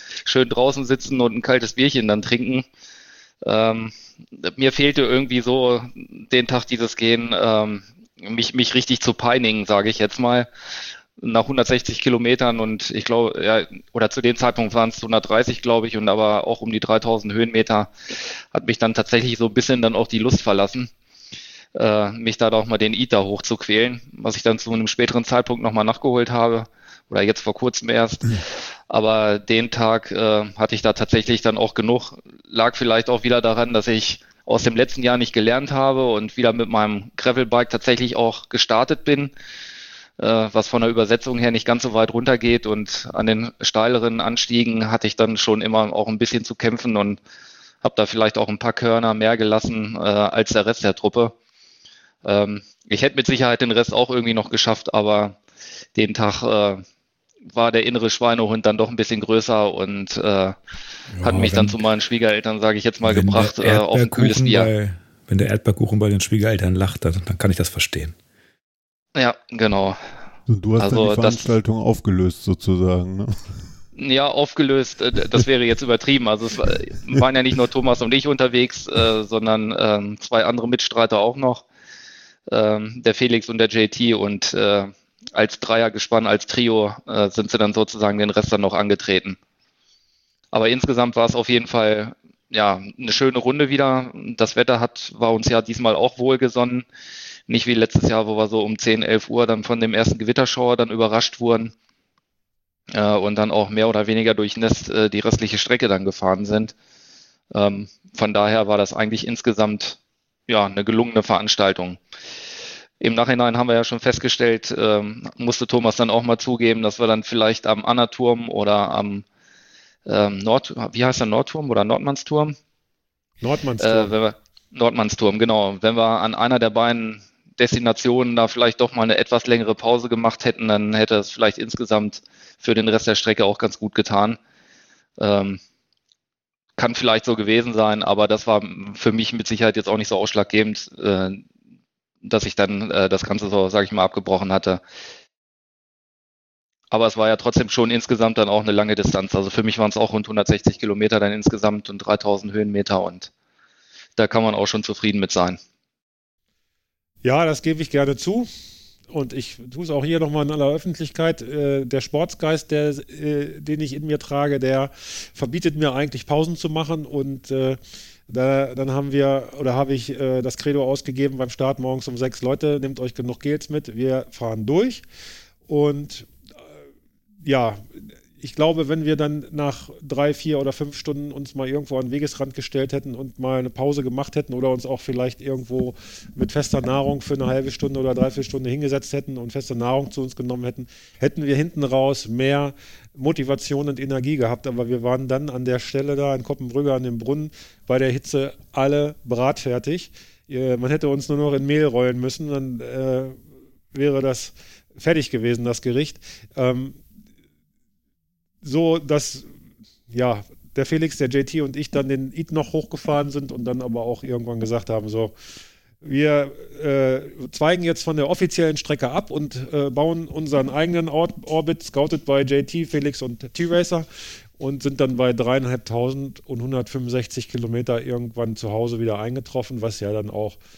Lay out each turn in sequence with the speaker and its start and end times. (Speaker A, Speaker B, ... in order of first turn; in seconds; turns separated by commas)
Speaker A: 0.2-2.6, Speaker A: 3.4-10.5, Speaker A: 11.2-17.9, Speaker A: 18.5-20.9, Speaker A: 21.7-39.3, Speaker A: 40.2-47.2, Speaker A: 47.8-51.3, Speaker A: 52.2-55.4, Speaker A: 55.9-56.8, Speaker A: 57.5-60.5, Speaker B: 61.1-61.8, Speaker A: 61.2-64.7, Speaker B: 63.0-68.1, Speaker A: 69.1-70.0, Speaker C: 70.5-73.5, Speaker A: 70.8-71.5, Speaker A: 73.9-81.6, Speaker A: 82.5-89.4, Speaker A: 90.5-96.8, Speaker A: 97.5-101.7, Speaker A: 102.9-106.7, Speaker A: 107.5-112.0, Speaker A: 113.0-119.2, Speaker A: 120.0-122.5, Speaker D: 123.4-124.1, Speaker A: 123.8-134.4, Speaker A: 135.2-135.6, Speaker A: 136.8-141.4, Speaker A: 142.2-144.8, Speaker A: 146.9-153.3, Speaker A: 154.2-155.6, Speaker D: 157.2-158.5, Speaker D: 159.1-175.0, Speaker D: 175.7-176.3, Speaker D: 177.4-203.4, Speaker D: 203.9-207.0, Speaker D: 208.6-209.5, Speaker D: 210.1-215.3, Speaker D: 216.0-224.1, Speaker D: 224.6-230.6